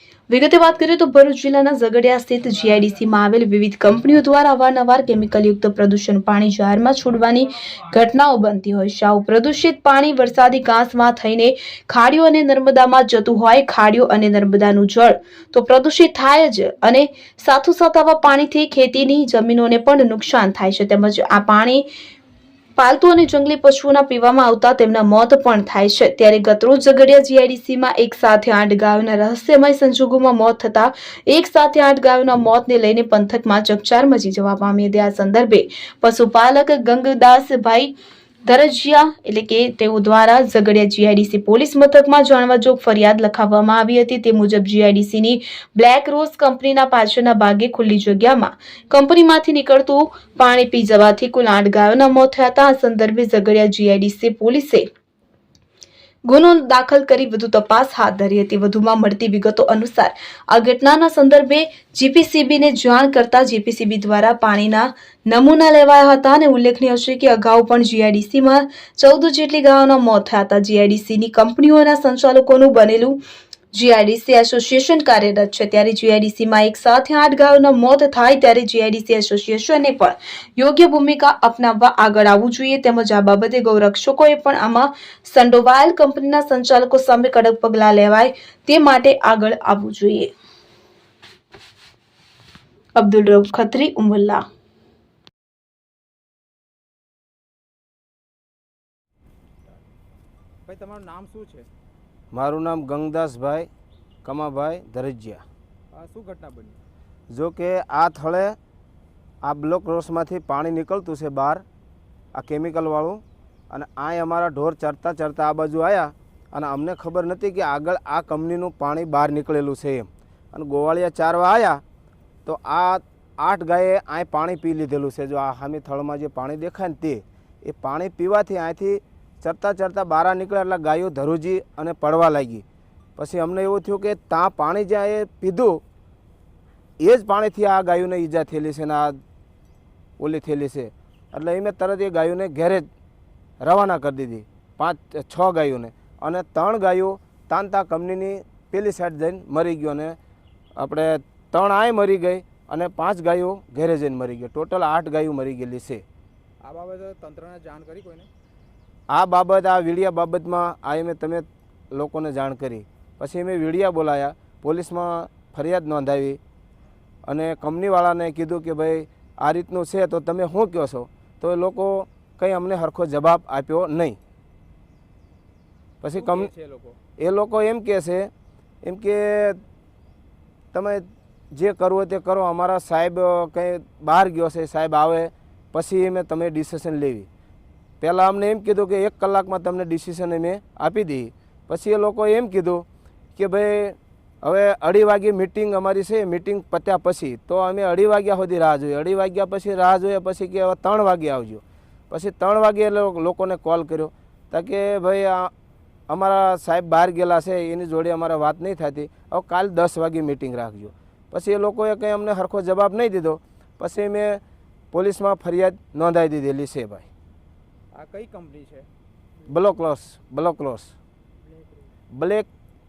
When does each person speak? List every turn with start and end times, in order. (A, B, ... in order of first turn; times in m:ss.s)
0:00.3-0:21.9 A
0:22.8-0:37.9 A
0:38.4-0:54.9 A
0:56.3-1:13.2 A
1:13.7-1:30.3 A
1:33.0-1:34.4 A
1:40.7-1:41.7 B
1:42.3-1:43.7 C
1:44.2-1:45.4 C
1:45.9-1:46.8 B
1:47.3-1:48.6 C
1:49.4-1:51.6 C
1:52.3-2:01.8 C
2:02.4-2:12.6 C
2:13.2-2:15.8 C
2:17.0-2:19.2 C
2:20.2-2:22.9 C
2:23.6-2:30.2 C
2:30.8-2:36.0 C
2:36.6-2:38.3 B
2:39.1-2:46.4 C
2:47.3-2:54.2 C
2:56.0-2:56.5 C
2:56.2-2:57.0 B
2:57.2-2:58.3 C
2:58.8-2:59.6 C
3:00.7-3:07.3 C
3:08.0-3:25.5 C
3:26.1-3:37.1 C
3:37.9-3:38.9 B
3:39.5-3:40.9 C
3:42.1-3:42.5 C